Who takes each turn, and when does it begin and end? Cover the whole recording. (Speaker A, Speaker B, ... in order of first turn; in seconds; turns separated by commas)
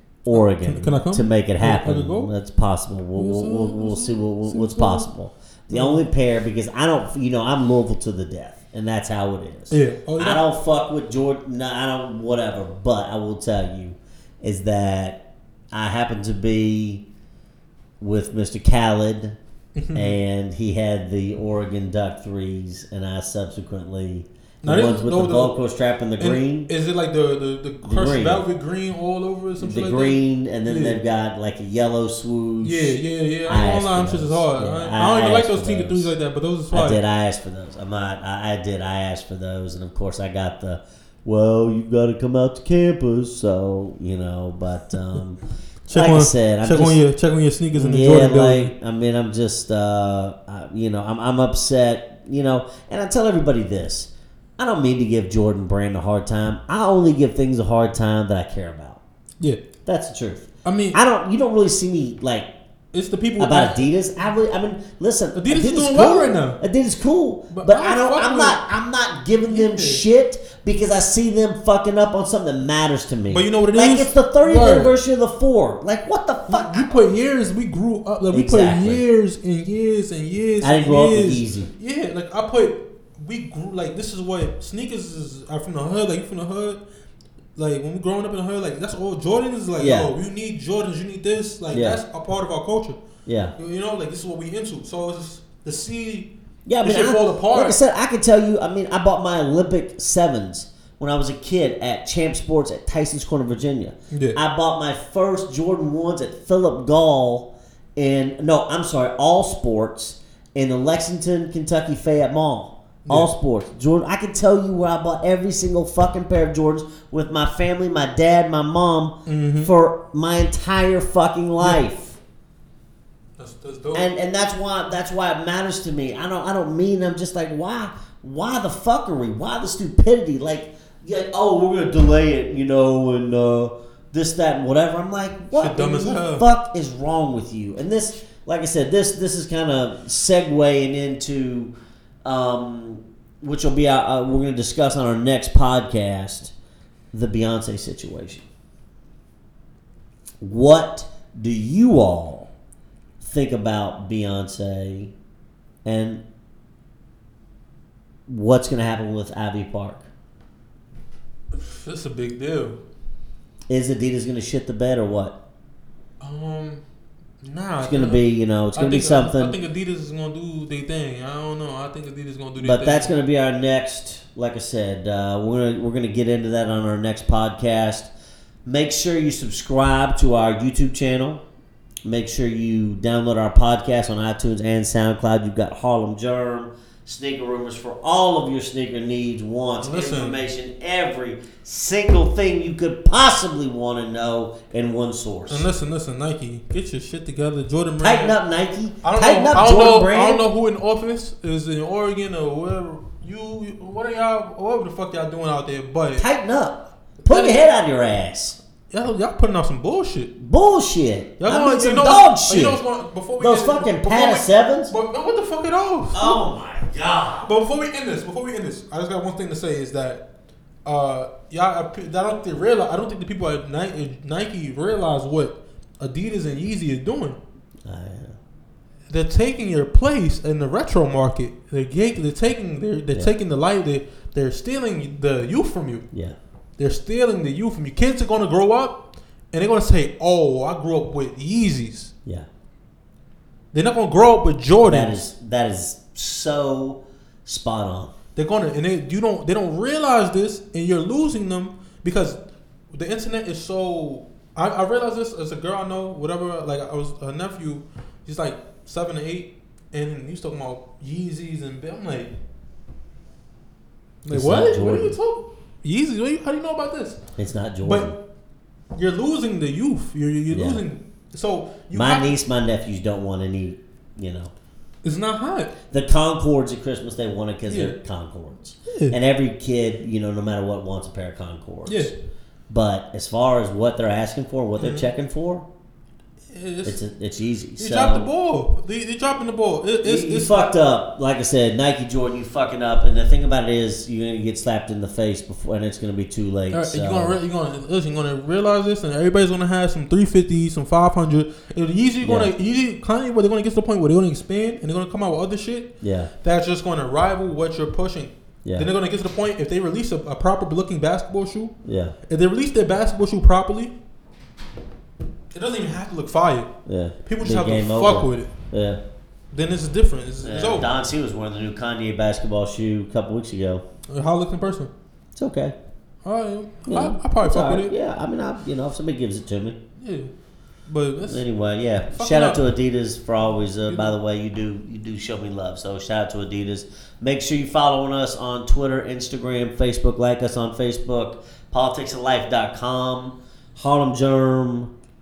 Speaker A: 0.2-17.1, Speaker B: 0.3-2.3, Speaker B: 3.2-5.1, Speaker B: 5.7-6.1, Speaker B: 9.7-10.4, Speaker A: 18.0-19.4, Speaker B: 19.8-20.2, Speaker A: 19.9-26.7, Speaker B: 24.6-25.6, Speaker B: 26.2-31.0, Speaker A: 27.9-28.4, Speaker A: 29.6-36.1, Speaker B: 32.6-37.0, Speaker A: 36.7-45.4, Speaker B: 45.9-48.7, Speaker A: 45.9-47.0, Speaker A: 47.7-59.0, Speaker A: 59.9-62.5, Speaker B: 60.6-61.0, Speaker B: 62.9-63.9, Speaker A: 63.4-76.9, Speaker B: 65.3-66.6, Speaker B: 67.5-68.6, Speaker B: 69.5-70.0, Speaker B: 73.3-74.9, Speaker B: 76.5-86.8, Speaker A: 78.3-79.0, Speaker A: 80.6-81.7, Speaker B: 87.6-93.0, Speaker A: 89.8-90.1, Speaker A: 91.7-92.0, Speaker A: 93.3-93.5, Speaker B: 93.6-97.8, Speaker A: 96.7-122.2, Speaker B: 104.1-104.4, Speaker B: 113.1-113.3, Speaker B: 119.3-119.7, Speaker B: 123.4-124.1, Speaker A: 123.9-141.7, Speaker B: 135.5-136.5, Speaker A: 142.2-146.5, Speaker A: 147.1-148.5, Speaker A: 150.4-152.5, Speaker A: 153.2-155.1, Speaker A: 155.8-156.2, Speaker A: 158.3-160.1, Speaker B: 161.5-162.8, Speaker A: 163.7-165.4, Speaker B: 166.2-166.8, Speaker B: 167.4-173.1, Speaker A: 167.8-169.6, Speaker A: 172.6-178.1, Speaker A: 178.7-181.4, Speaker A: 182.1-195.7, Speaker B: 189.8-190.4, Speaker B: 195.5-198.4, Speaker A: 198.0-200.5, Speaker B: 199.0-206.3, Speaker A: 206.2-208.6, Speaker B: 207.2-207.7, Speaker B: 208.9-210.3, Speaker A: 210.4-212.8, Speaker B: 211.4-216.4, Speaker A: 213.4-214.9, Speaker A: 216.1-217.5, Speaker B: 217.4-220.2, Speaker B: 220.9-227.4, Speaker A: 227.9-228.4, Speaker B: 229.1-236.1, Speaker A: 236.1-236.4, Speaker B: 236.8-242.1, Speaker B: 243.7-245.3, Speaker A: 244.8-248.1, Speaker B: 248.4-252.4, Speaker B: 252.9-262.3, Speaker B: 264.2-267.2, Speaker A: 264.3-265.2, Speaker A: 267.4-268.1, Speaker B: 267.8-268.1, Speaker B: 268.9-272.4, Speaker A: 270.5-270.8, Speaker A: 271.9-274.5, Speaker B: 275.0-275.7, Speaker A: 275.9-282.1, Speaker B: 277.7-278.0, Speaker B: 278.9-279.2, Speaker B: 281.9-282.1, Speaker A: 282.7-285.7, Speaker B: 284.8-285.1, Speaker B: 286.5-287.0, Speaker A: 286.9-288.3, Speaker B: 287.8-290.5, Speaker A: 290.0-297.4, Speaker B: 296.7-311.7, Speaker A: 302.2-302.5, Speaker A: 306.0-306.3, Speaker A: 308.6-308.9, Speaker A: 311.9-312.2, Speaker B: 312.3-313.9, Speaker B: 315.5-316.7, Speaker A: 316.9-319.0, Speaker B: 317.2-318.5, Speaker B: 319.5-320.9, Speaker A: 320.4-323.8, Speaker B: 324.1-324.9, Speaker A: 325.4-325.8, Speaker B: 326.2-327.9, Speaker A: 326.9-329.8, Speaker B: 330.0-330.3, Speaker B: 330.9-331.4, Speaker A: 331.2-344.9, Speaker B: 332.1-332.6, Speaker B: 333.9-334.1